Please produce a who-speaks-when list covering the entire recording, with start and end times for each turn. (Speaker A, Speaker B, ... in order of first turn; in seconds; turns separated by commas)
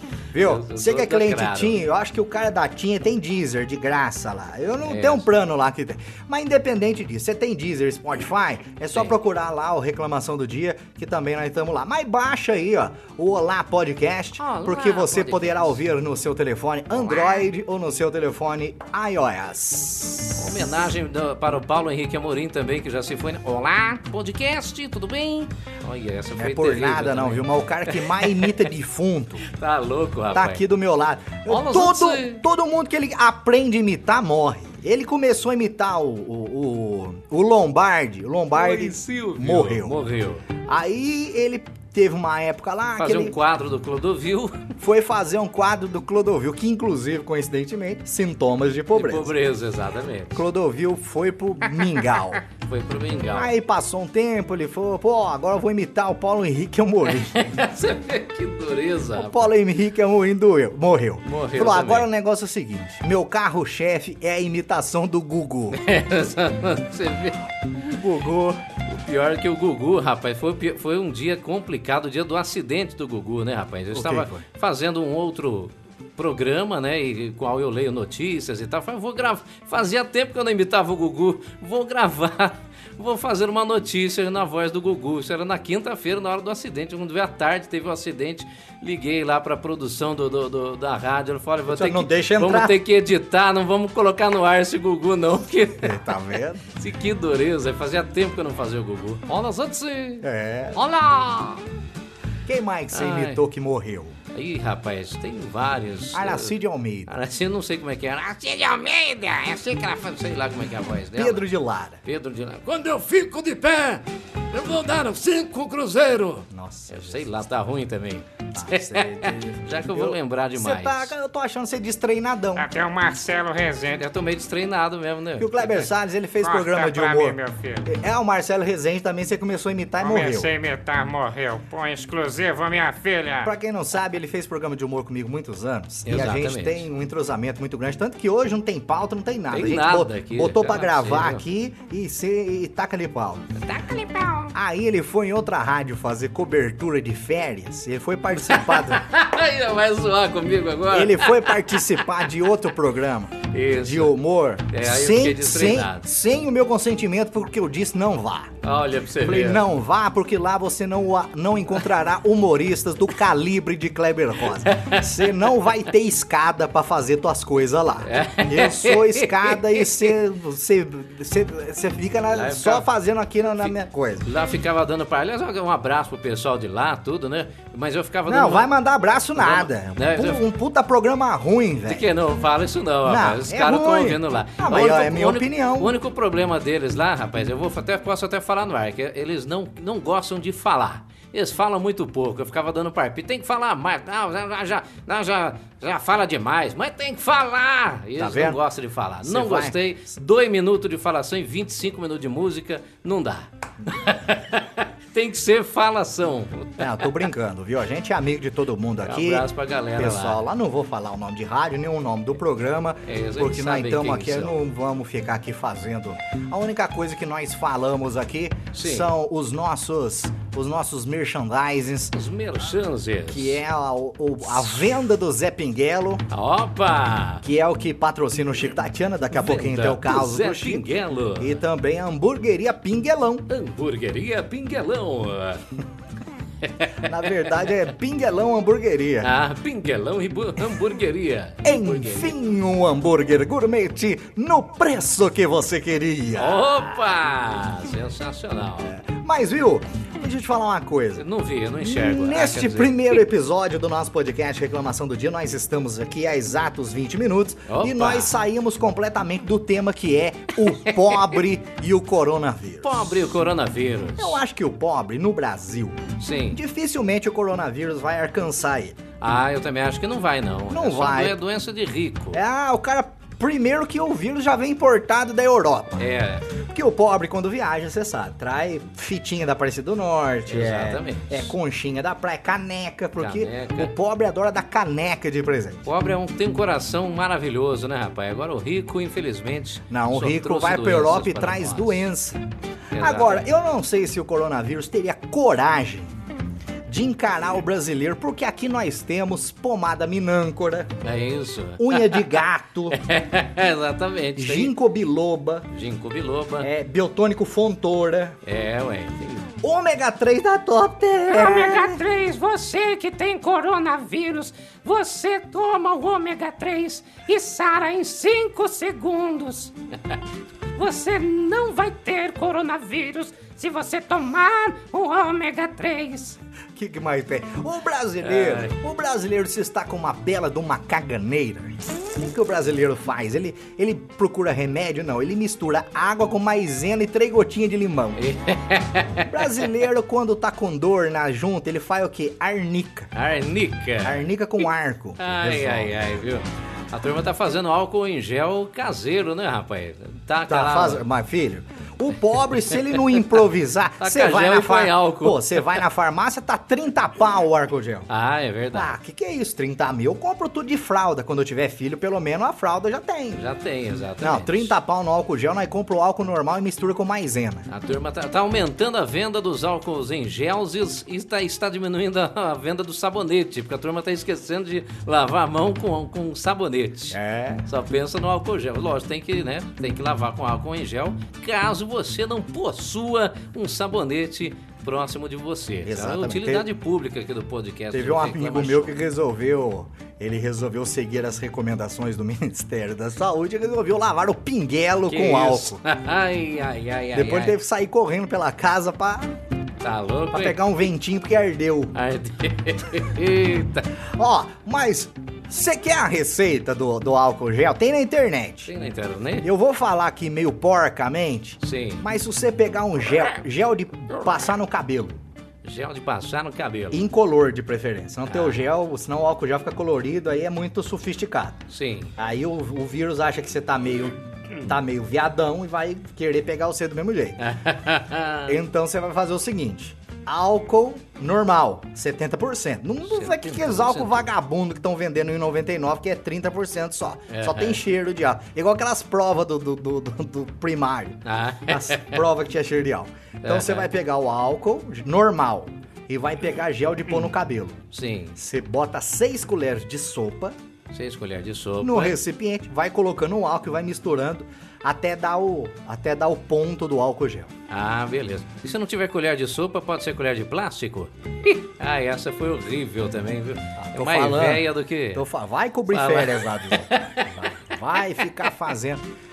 Speaker A: 0.3-20.6, Speaker B: 0.4-1.8, Speaker B: 4.8-5.3, Speaker B: 14.4-15.8, Speaker B: 17.0-17.4, Speaker B: 20.4-28.6, Speaker A: 26.4-29.4, Speaker B: 29.4-30.6, Speaker A: 30.3-40.0, Speaker B: 31.4-32.4, Speaker B: 38.5-40.5, Speaker A: 40.6-43.4, Speaker B: 43.0-44.7, Speaker A: 44.8-49.3, Speaker B: 48.9-50.4, Speaker A: 50.3-52.4, Speaker B: 52.4-53.5, Speaker A: 53.3-57.5, Speaker B: 57.2-59.5, Speaker A: 59.1-65.8, Speaker B: 61.2-62.1, Speaker B: 65.7-67.5, Speaker A: 67.7-68.6, Speaker B: 68.9-96.0, Speaker A: 73.9-74.4, Speaker A: 91.7-92.8, Speaker A: 95.8-96.6, Speaker B: 96.8-101.6, Speaker A: 100.2-100.8, Speaker A: 102.5-104.2, Speaker B: 102.9-103.4, Speaker B: 104.3-106.5, Speaker A: 106.1-107.1, Speaker B: 107.1-111.4, Speaker A: 111.1-112.0, Speaker B: 112.0-121.1, Speaker A: 116.5-117.3, Speaker A: 118.5-122.7, Speaker C: 122.5-124.0, Speaker B: 123.9-125.9, Speaker A: 125.4-130.5, Speaker C: 126.4-127.9, Speaker C: 130.0-133.5, Speaker A: 133.4-143.6, Speaker B: 136.1-136.9, Speaker B: 139.5-141.4, Speaker B: 143.6-144.6, Speaker A: 144.5-149.0, Speaker B: 148.4-152.3, Speaker A: 150.9-158.6, Speaker B: 153.5-154.2, Speaker B: 154.7-156.1, Speaker B: 158.6-159.6, Speaker A: 159.2-174.3, Speaker B: 164.6-165.2, Speaker B: 168.1-170.1, Speaker B: 172.3-172.9, Speaker B: 174.2-178.7, Speaker A: 178.3-182.1, Speaker B: 179.4-180.4, Speaker B: 181.9-207.2, Speaker A: 183.1-185.9, Speaker A: 198.2-198.6, Speaker A: 199.2-199.8, Speaker A: 206.8-222.1, Speaker B: 209.0-210.4, Speaker B: 213.1-214.6, Speaker B: 218.7-219.1, Speaker B: 222.1-223.6, Speaker A: 223.3-226.2, Speaker B: 226.3-227.4, Speaker A: 227.4-233.4, Speaker B: 229.3-231.6, Speaker B: 233.5-235.6, Speaker B: 236.6-237.7, Speaker A: 237.0-239.3, Speaker B: 239.2-242.3, Speaker A: 241.6-246.7, Speaker B: 246.3-248.9, Speaker A: 248.8-251.2, Speaker B: 251.2-253.2, Speaker A: 251.8-263.1, Speaker B: 257.7-258.4, Speaker B: 260.9-261.4, Speaker B: 262.8-264.4, Speaker A: 264.2-269.0, Speaker B: 266.2-266.6, Speaker B: 269.2-272.4, Speaker A: 270.7-271.4, Speaker A: 272.3-285.9, Speaker B: 276.0-276.5, Speaker B: 280.4-281.5, Speaker B: 283.2-283.9, Speaker B: 285.9-292.1, Speaker A: 289.9-292.4, Speaker B: 292.9-293.5, Speaker A: 292.9-296.1, Speaker A: 296.9-300.9, Speaker B: 301.0-304.7, Speaker A: 301.8-303.0, Speaker A: 304.4-305.6, Speaker B: 305.7-306.7, Speaker A: 306.6-308.4, Speaker B: 308.4-309.5, Speaker A: 309.6-312.0, Speaker B: 311.3-320.1, Speaker B: 320.8-326.4, Speaker A: 326.8-338.2, Speaker B: 328.2-328.8, Speaker B: 338.1-339.7, Speaker A: 339.3-343.1, Speaker B: 343.1-344.3, Speaker A: 344.0-346.1, Speaker B: 345.2-351.0, Speaker A: 350.5-358.1, Speaker B: 354.0-355.8, Speaker B: 358.1-358.9, Speaker A: 358.7-363.4, Speaker B: 363.3-364.7, Speaker A: 364.2-367.7, Speaker B: 367.7-388.9, Speaker A: 377.1-377.6, Speaker A: 385.8-386.6, Speaker A: 387.9-395.8, Speaker B: 395.1-397.6, Speaker A: 397.1-399.3, Speaker B: 399.8-400.6, Speaker A: 400.3-401.9, Speaker B: 401.9-403.9, Speaker A: 404.1-408.7, Speaker B: 408.6-409.5, Speaker A: 409.4-415.2, Speaker B: 411.6-412.0, Speaker B: 415.6-417.0, Speaker A: 416.9-421.6, Speaker B: 418.3-418.6, Speaker B: 421.7-422.1, Speaker A: 422.2-427.4, Speaker B: 427.4-428.6, Speaker A: 428.4-447.8, Speaker B: 433.1-434.3, Speaker B: 437.3-437.8, Speaker B: 441.2-442.2, Speaker B: 443.4-443.9, Speaker B: 447.9-448.4, Speaker A: 448.4-450.6, Speaker B: 450.9-452.2, Speaker A: 451.8-457.5, Speaker B: 457.7-465.2, Speaker A: 463.8-469.0, Speaker B: 465.9-467.5